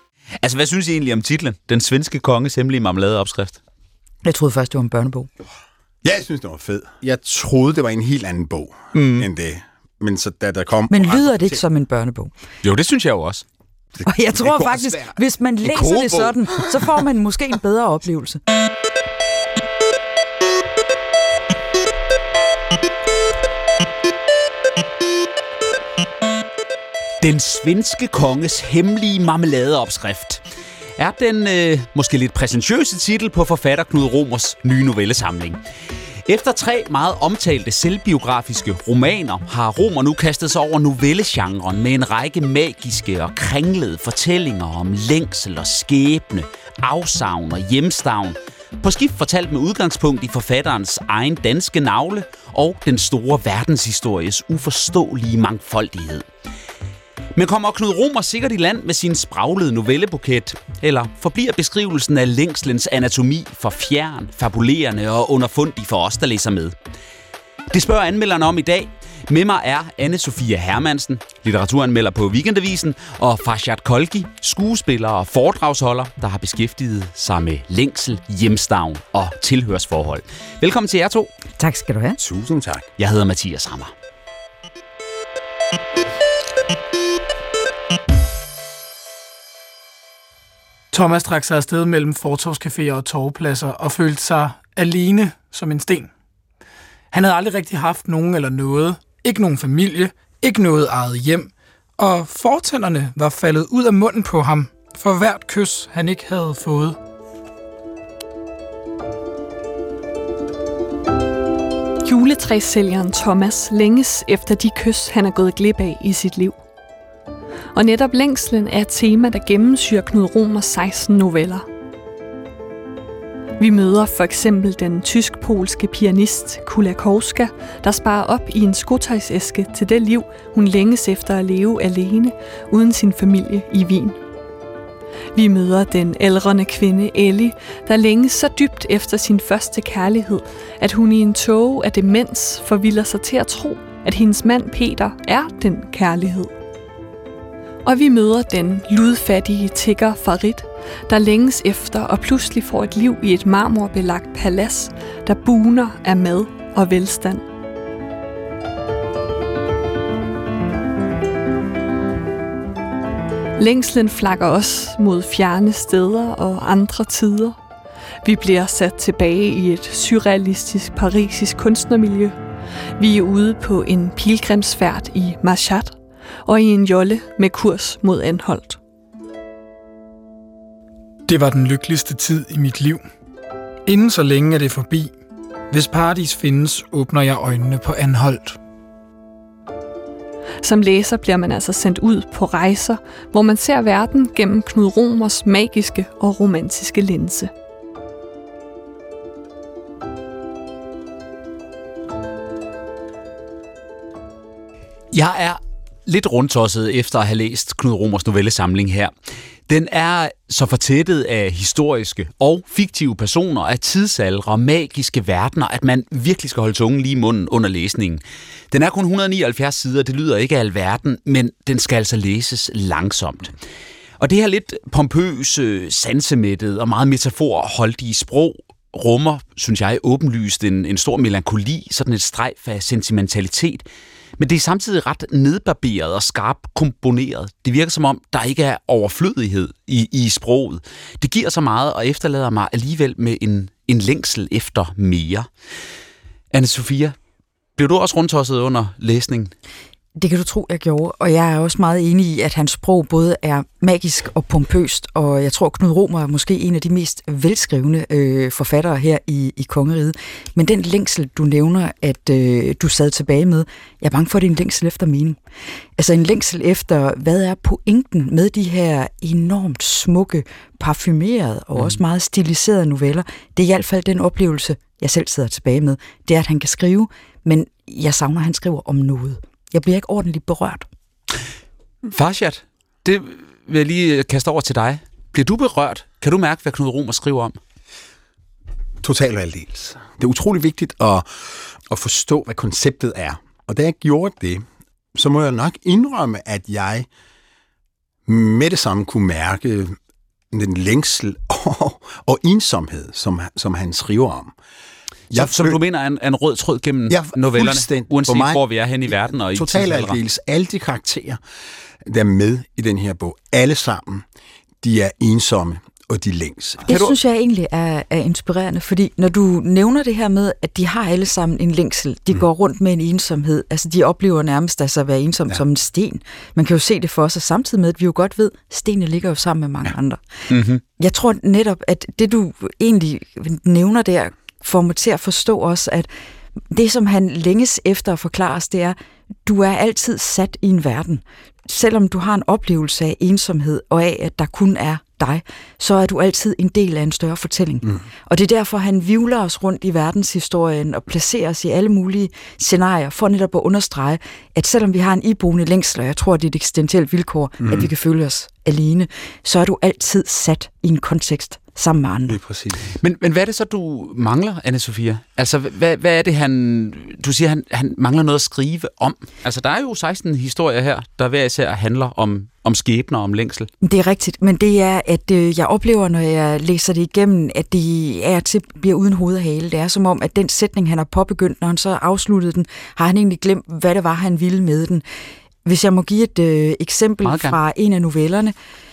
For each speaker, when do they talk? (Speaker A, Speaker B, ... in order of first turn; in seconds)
Speaker A: 0.4-3.6, 8.9-9.3, 12.6-13.4, 27.2-30.4, 31.0-35.6, 36.3-56.3, 57.4-66.8, 67.7-81.3, 83.0-83.9, 205.1-209.1, 209.7-223.6, 224.2-233.8, 234.4-245.5, 246.5-247.2, 247.8-249.5, 282.1-287.6, 305.3-310.2, 330.5-330.8, 363.0-373.7, 387.2-387.6
Speaker B: 4.2-5.3, 10.9-12.3, 14.1-18.4, 81.6-82.2, 250.2-265.4, 266.0-280.9, 316.9-330.2, 331.0-336.1, 336.7-362.4, 373.8-385.0, 385.6-388.6
Speaker C: 6.0-11.6, 14.0-16.9, 82.2-82.9, 289.0-297.1, 298.3-300.0, 300.5-304.5, 305.3-305.8, 307.1-311.4, 312.1-314.3, 314.8-317.0, 357.6-357.9, 362.3-362.9
Speaker D: 90.9-96.1, 97.1-107.0, 181.3-183.0, 183.9-185.1, 185.7-188.6
Speaker E: 112.0-116.6, 117.7-121.7, 123.6-134.2, 135.3-146.5, 147.8-157.4, 163.6-167.6, 168.2-172.4, 173.0-178.8, 190.6-197.5